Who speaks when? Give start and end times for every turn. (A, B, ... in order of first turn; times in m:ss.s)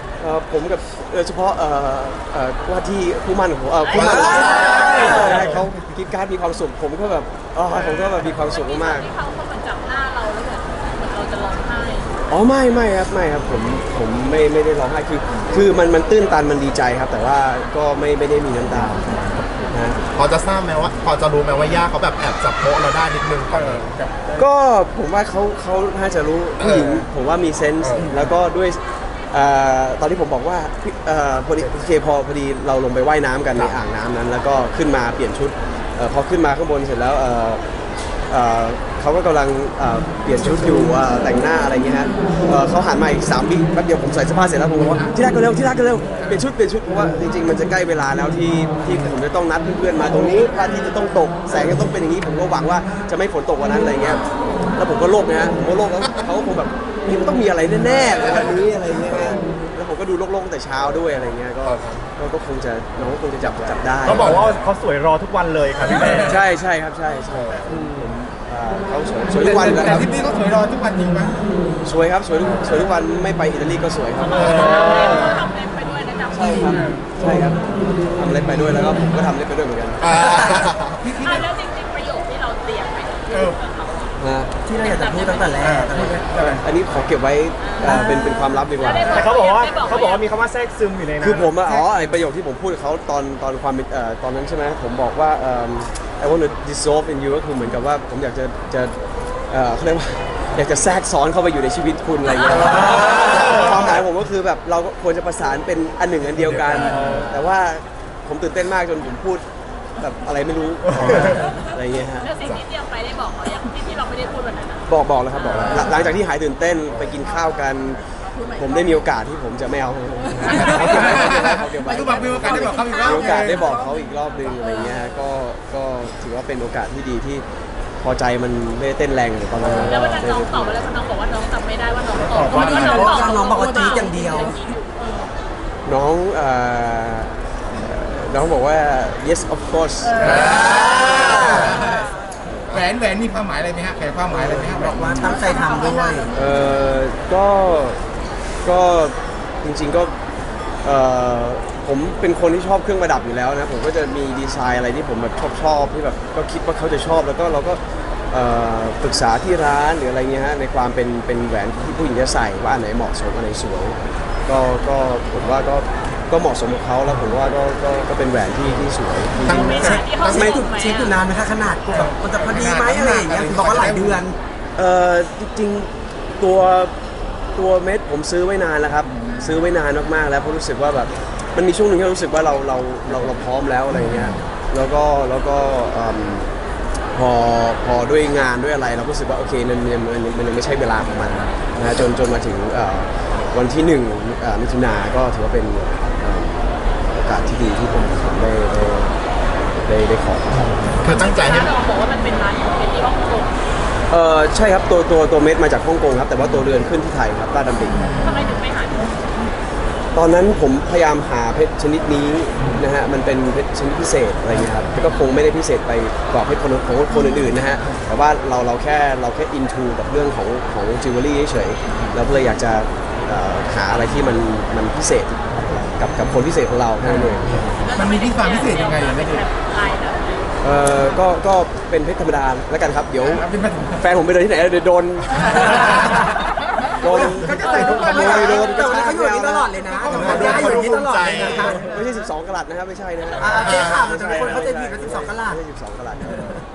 0:00.2-0:09.1 A
0:03.8-0:05.2 B
0:04.0-0:05.1 C
0:08.2-0:12.1 B
0:12.3-0:20.0 A
0:20.1-0:24.1 C
0:23.7-0:24.2 D
0:24.3-0:37.6 A
0:26.6-0:27.0 C
0:27.8-0:28.1 C
0:38.3-1:04.4 A
1:01.6-1:02.0 C
1:03.6-1:04.6 C
1:04.2-1:06.3 E
1:05.8-1:06.1 C
1:06.2-1:10.1 A
1:09.4-1:11.4 D
1:11.8-1:15.4 A
1:14.3-1:16.6 B
1:16.3-1:17.6 A
1:18.2-1:20.0 A
1:20.0-1:21.0 C
1:21.0-1:21.5 D
1:21.2-1:24.1 B
1:23.3-1:23.6 D
1:24.2-1:24.5 A
1:24.6-1:26.2 F
1:24.8-1:25.6 B
1:25.6-1:26.6 D
1:26.6-1:29.3 A
1:27.6-1:28.0 B
1:28.8-1:30.3 B
1:29.1-1:31.5 E
1:31.2-1:39.0 A
1:31.5-1:31.8 D
1:39.5-1:49.4 A
1:50.0-1:52.3 A
1:50.9-1:51.4 C
1:52.2-1:54.8 B
1:54.9-2:07.4 A
1:55.5-1:55.8 B
1:55.6-1:55.9 C
1:58.6-1:58.9 E
2:00.6-2:01.0 E
2:00.7-2:03.7 D
2:02.0-2:03.2 E
2:08.0-2:10.8 A
2:09.6-2:14.9 B
2:12.2-2:13.2 D
2:12.5-2:12.9 C
2:12.9-2:14.5 F
2:13.5-2:14.5 E
2:15.8-2:21.6 A
2:20.2-2:22.1 D
2:20.7-2:21.6 F
2:22.7-2:25.4 D
2:24.3-2:26.3 F
2:25.4-2:26.3 E
2:26.3-2:28.0 A
2:28.6-2:30.1 A
2:30.8-2:37.8 A
2:38.3-2:50.6 A
2:49.4-2:50.6 C
2:49.6-2:51.2 B
2:50.4-2:54.4 F
2:51.9-2:54.2 D
2:54.8-2:56.9 A
2:57.6-3:06.5 A
2:59.1-2:59.5 D
3:07.1-3:19.1 A
3:19.8-3:21.0 A
3:21.0-3:21.7 C
3:21.0-3:23.5 B
3:24.1-3:28.2 A
3:28.2-3:29.1 B
3:30.1-3:47.7 A
3:47.8-3:50.6 B
3:47.9-3:49.4 D
3:50.6-3:53.4 A
3:53.2-3:54.0 D
3:54.0-3:56.2 A
3:57.0-3:59.7 A
3:57.0-3:58.9 D
3:57.4-4:01.8 F
3:59.9-4:01.7 D
4:00.1-4:01.8 C
4:01.7-4:06.6 A
4:03.4-4:05.6 F
4:03.4-4:04.0 C
4:06.3-4:06.6 F